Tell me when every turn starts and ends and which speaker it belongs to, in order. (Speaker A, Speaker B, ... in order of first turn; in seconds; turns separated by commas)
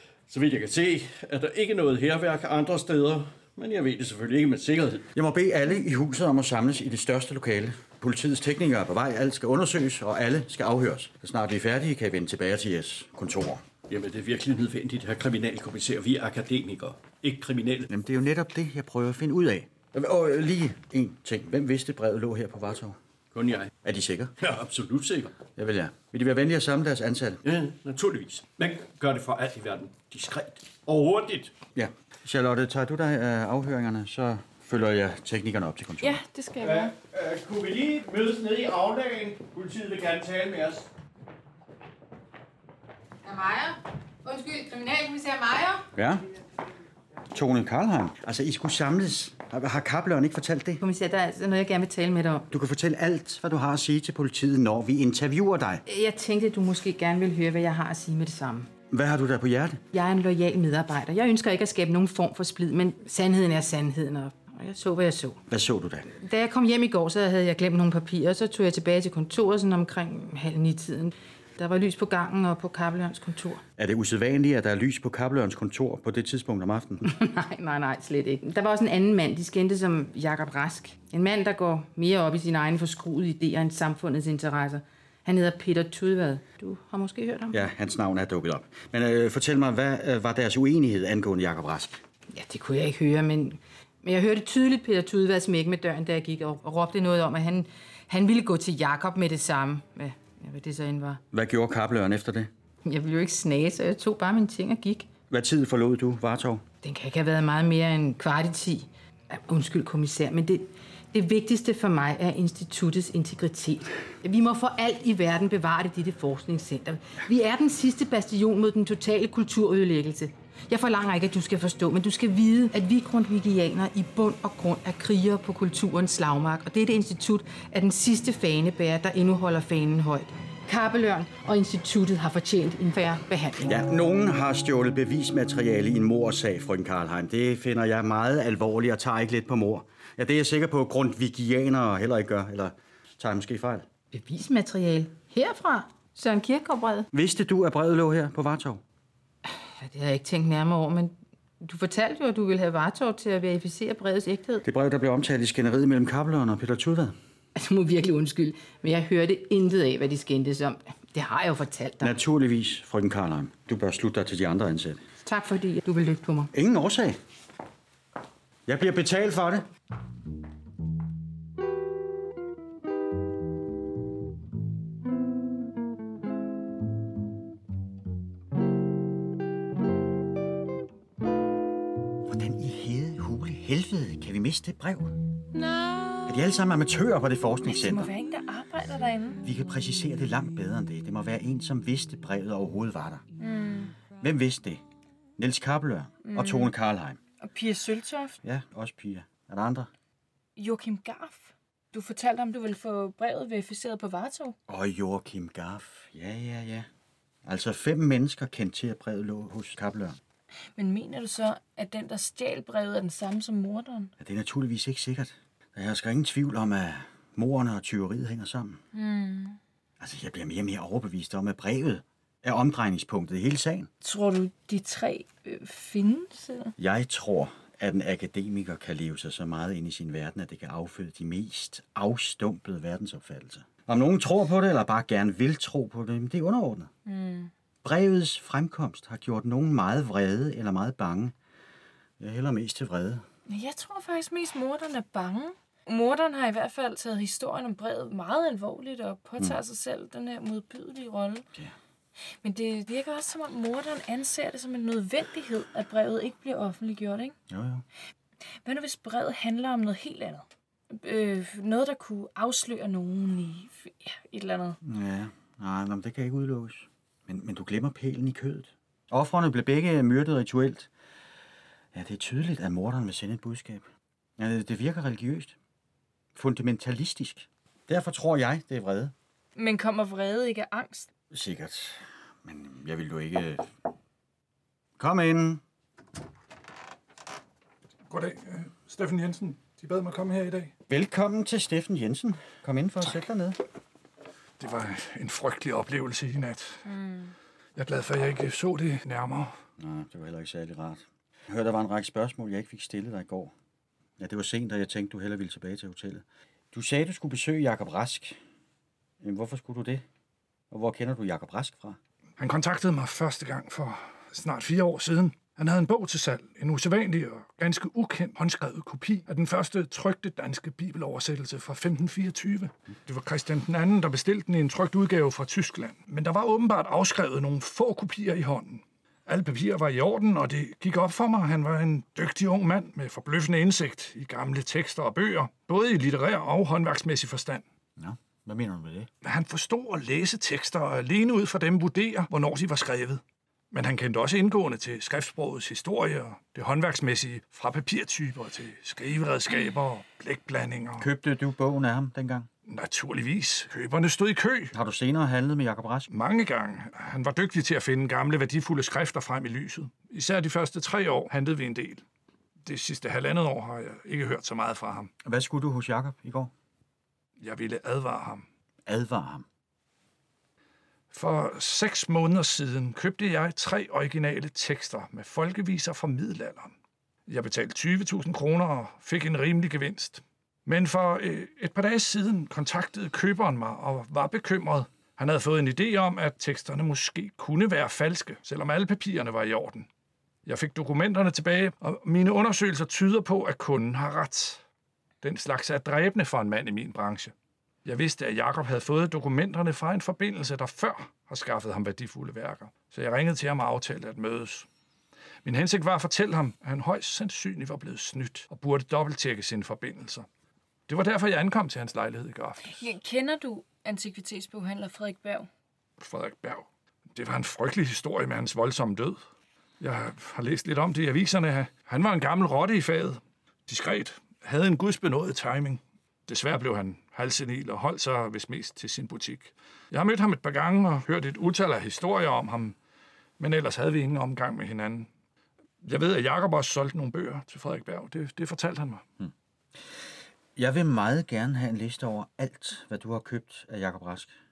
Speaker A: 0.3-5.1, Speaker B: 5.1-13.6, Speaker A: 13.9-17.9, Speaker B: 17.9-23.0, Speaker A: 23.3-23.7, Speaker B: 23.8-24.3, Speaker A: 24.4-25.4, Speaker B: 25.5-27.4, Speaker A: 27.4-31.6, Speaker B: 31.7-36.2, Speaker C: 36.0-36.9, Speaker A: 36.6-40.9, Speaker D: 43.2-45.9, Speaker B: 45.9-46.3, Speaker B: 47.3-50.8, Speaker D: 50.8-52.5, Speaker B: 52.5-55.8, Speaker D: 55.9-58.7, Speaker B: 58.9-59.8, Speaker D: 59.9-65.4, Speaker B: 65.5-66.1, Speaker D: 66.2-73.6, Speaker B: 73.8-77.1, Speaker D: 77.1-87.6, Speaker B: 87.5-92.0, Speaker D: 92.3-101.2, Speaker B: 101.3-102.5, Speaker D: 102.8-105.1, Speaker B: 105.3-106.6, Speaker D: 106.8-133.7, Speaker B: 133.6-143.9, Speaker D: 144.1-147.1, Speaker B: 147.1-148.8, Speaker D: 149.4-154.6, Speaker B: 154.6-157.2, Speaker D: 157.6-162.1, Speaker B: 162.0-165.0, Speaker D: 165.2-166.5, Speaker B: 166.5-167.2, Speaker B: 168.7-169.7, Speaker B: 182.2-185.2, Speaker C: 185.7-186.1, Speaker B: 186.2-188.1, Speaker C: 187.6-189.4, Speaker B: 189.4-193.2, Speaker C: 193.4-193.9, Speaker B: 194.2-194.8, Speaker B: 195.4-197.2, Speaker C: 196.2-196.7, Speaker C: 197.4-198.4, Speaker B: 198.4-199.9, Speaker C: 200.6-204.6, Speaker B: 204.7-206.9, Speaker B: 207.4-210.2, Speaker C: 210.7-214.1, Speaker B: 214.2-218.8, Speaker C: 218.9-219.6, Speaker B: 220.0-223.9, Speaker C: 224.0-226.7, Speaker B: 226.8-236.9, Speaker C: 237.1-237.5, Speaker B: 237.8-241.3, Speaker B: 242.2-243.2, Speaker C: 243.5-251.4, Speaker C: 252.4-257.3, Speaker B: 257.5-257.8, Speaker C: 258.6-264.8, Speaker B: 264.8-270.9, Speaker B: 271.9-273.8, Speaker B: 274.4-275.5, Speaker B: 276.3-279.1, Speaker C: 279.6-281.1, Speaker B: 281.3-283.7, Speaker B: 285.0-285.6, Speaker E: 288.1-290.7, Speaker B: 290.9-293.6, Speaker E: 294.6-296.8, Speaker C: 296.9-297.3, Speaker E: 297.8-299.5, Speaker B: 299.8-303.5, Speaker B: 304.2-308.4, Speaker B: 309.2-310.0, Speaker B: 310.7-312.0, Speaker E: 312.4-337.6, Speaker B: 338.0-339.1, Speaker E: 339.2-343.2, Speaker E: 343.7-351.1, Speaker B: 351.0-352.5, Speaker E: 352.7-354.7, Speaker B: 354.7-356.1, Speaker E: 356.1-362.0, Speaker E: 362.6-365.1, Speaker B: 365.2-366.5, Speaker E: 367.4-368.4, Speaker B: 368.9-369.4, Speaker E: 371.1-376.7, Speaker E: 377.3-389.9, Speaker E: 390.4-394.6, Speaker E: 395.2-397.3, Speaker E: 397.8-404.7, Speaker E: 405.4-410.2, Speaker E: 410.9-412.8, Speaker C: 412.7-415.5, Speaker E: 416.0-419.2, Speaker E: 419.8-432.8, Speaker E: 433.4-435.1, Speaker E: 435.8-439.0, Speaker B: 440.6-444.3